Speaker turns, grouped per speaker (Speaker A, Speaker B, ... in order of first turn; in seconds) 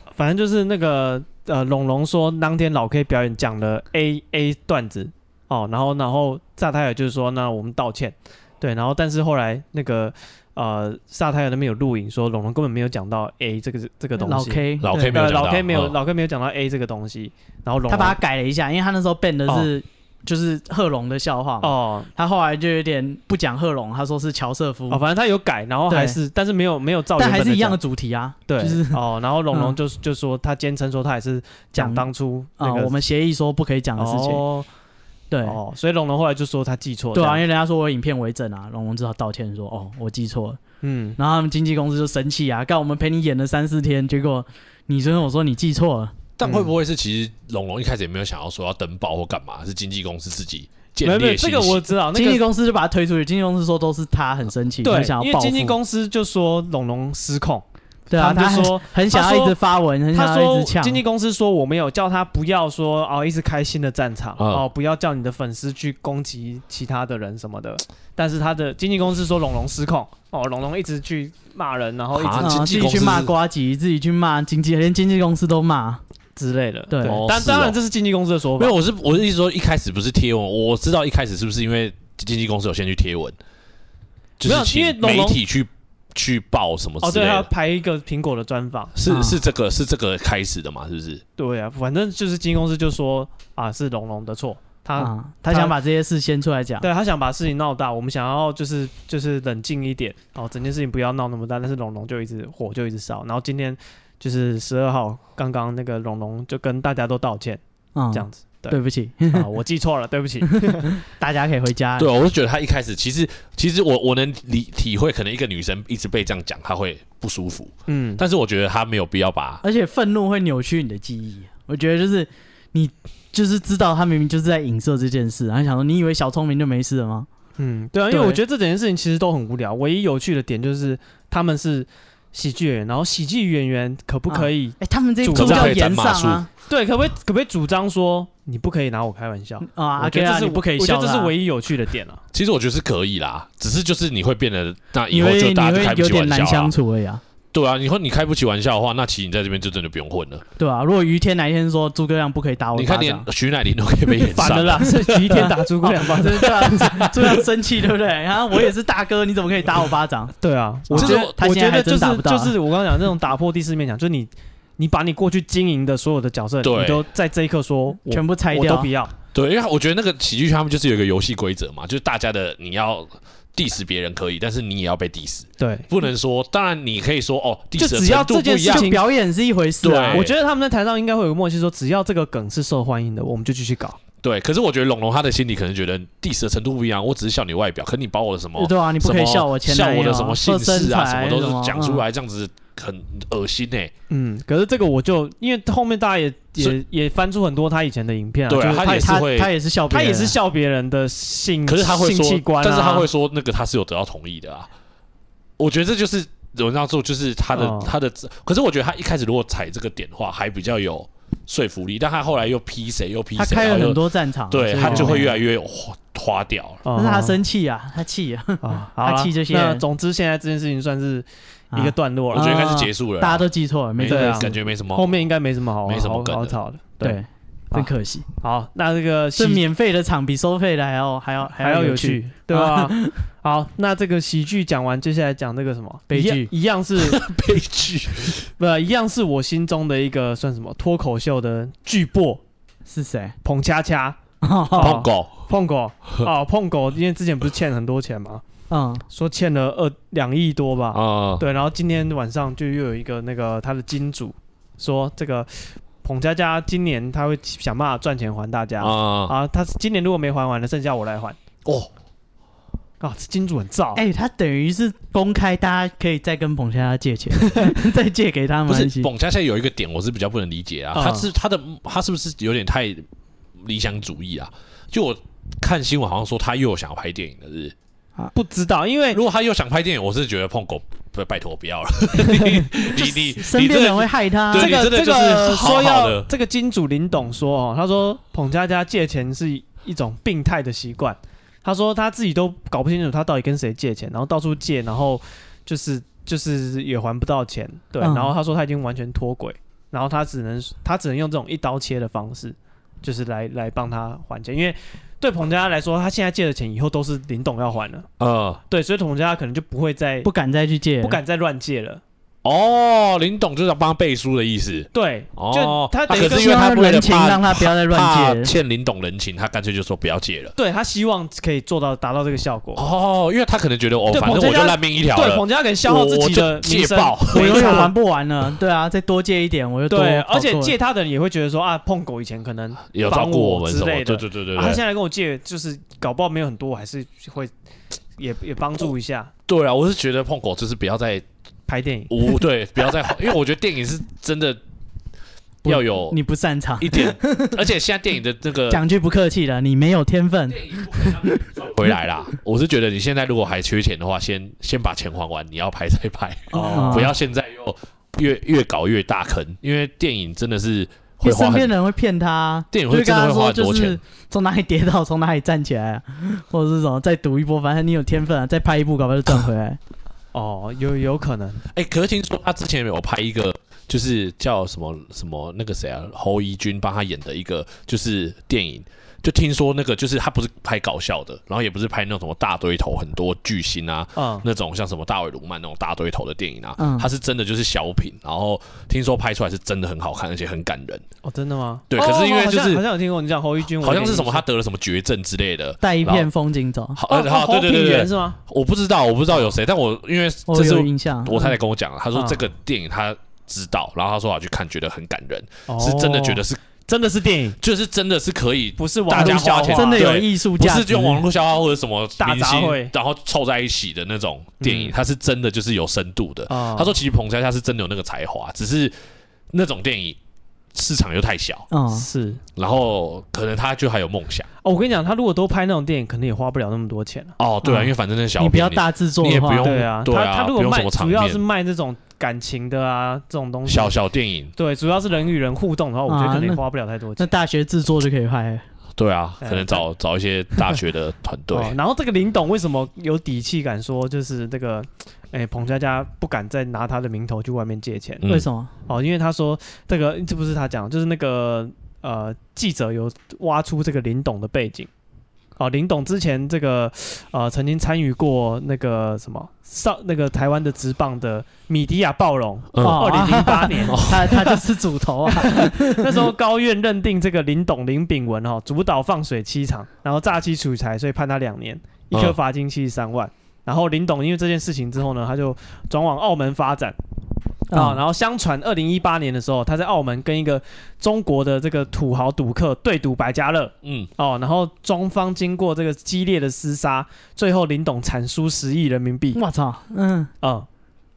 Speaker A: 0.2-18.2, 21.6-22.1, 24.9-27.8, 28.5-33.0, 34.0-34.7, 35.4-37.4, 40.8-41.2, 46.4-46.7, 51.0-52.4, 54.8-57.6, 58.1-59.6, 60.1-72.7, 76.4-78.7, 84.4-85.4, 87.0-88.9, 91.4-95.7, 96.8-107.6, 108.1-108.8, 109.3-111.0, 117.9-118.2, 127.6-135.8, 136.7-142.2, 154.3-157.4, 160.4-169.1, 175.6-175.9, 177.8-179.1, 180.1-184.0, 194.1-199.2, 199.9-203.1, 207.5-207.9, 214.8-215.2, 216.8-217.4, 218.6-222.5, 224.1-227.2, 227.7-229.6, 231.6-237.2, 238.6-242.4, 243.4-244.2, 244.7-248.4, 249.1-261.4, 263.0-264.0, 267.4-267.8, 270.9-271.3, 278.3-279.2, 282.3-282.6, 284.5-308.1, 308.7-310.3, 311.0-312.0, 314.9-316.5, 320.6-322.8, 324.1-327.9, 329.9-337.5, 338.2-339.3, 341.7-342.2, 356.5-357.1, 370.3-371.6, 384.1-384.4, 391.2-394.4, 397.1-398.4, 402.1-402.4, 405.7-407.6, 408.8-410.2, 412.2-412.9, 414.6-414.9, 416.5-416.9, 421.9-422.4, 424.6-427.4, 429.6-434.0, 434.6-437.3, 439.4-439.8, 441.5-448.2, 448.9-454.9, 455.6-464.6, 465.2-477.0, 477.7-489.4, 490.4-490.7
Speaker B: 14.2-15.2, 17.9-25.0, 25.9-26.2, 27.2-29.0, 31.7-32.1, 32.6-34.4, 35.3-35.6, 37.1-40.6, 41.2-46.1, 52.1-55.8, 58.1-61.0, 72.4-76.0, 76.9-77.2, 89.1-89.4, 95.0-96.8, 107.9-109.5, 110.5-112.1, 119.6-127.3, 128.1-128.4, 134.3-136.5, 139.6-141.3, 145.1-147.2, 150.6-153.3, 155.4-160.3, 160.9-162.5, 168.1-168.9, 178.6-180.3, 188.6-192.0, 198.7-200.4, 213.3-215.3, 216.9-219.8, 221.7-224.5, 227.0-228.3, 229.4-233.2, 236.1-236.5, 242.9-243.3, 244.4-245.0, 248.7-249.0, 263.9-269.1, 282.8-284.8, 298.0-298.3, 310.2-311.2, 316.1-318.5, 327.3-330.7, 345.6-347.6, 348.7-351.6, 356.5-357.1, 361.2-369.8, 386.8-387.1, 395.8-397.0, 400.5-401.5, 409.1-411.2, 421.7-422.1, 427.6-429.7, 436.1-436.6, 437.2-438.6, 448.3-448.7, 462.8-466.2, 477.7-478.0, 489.3-490.3
Speaker C: 14.8-15.9, 46.4-51.9, 64.4-64.6, 72.1-73.3, 77.0-77.8, 78.6-83.4, 84.4-87.5, 88.9-91.2, 112.0-119.6, 135.3-136.4, 142.3-146.7, 147.5-150.4, 152.7-155.5, 160.9-161.3, 166.6-167.1, 169.3-178.9, 179.8-180.3, 184.2-193.9, 198.5-199.5, 201.7-204.7, 205.6-216.8, 222.3-225.3, 225.8-226.6, 237.0-238.5, 244.8-245.4, 250.9-251.4, 258.8-259.3, 261.6-261.9, 268.7-273.1, 273.6-277.7, 279.1-286.3, 308.2-308.6, 312.4-320.5, 322.8-327.9, 332.9-334.8, 339.5-341.2, 342.1-344.6, 345.6-346.2, 346.8-348.8, 350.5-361.7, 362.7-364.0, 371.7-391.0, 391.9-392.8, 393.8-396.3, 396.9-406.6, 407.6-418.9, 419.5-420.2, 420.7-421.7, 422.6-424.5, 427.4-431.4, 433.6-434.5, 439.0-441.8, 462.7-463.1, 463.9-464.3, 483.8-484.1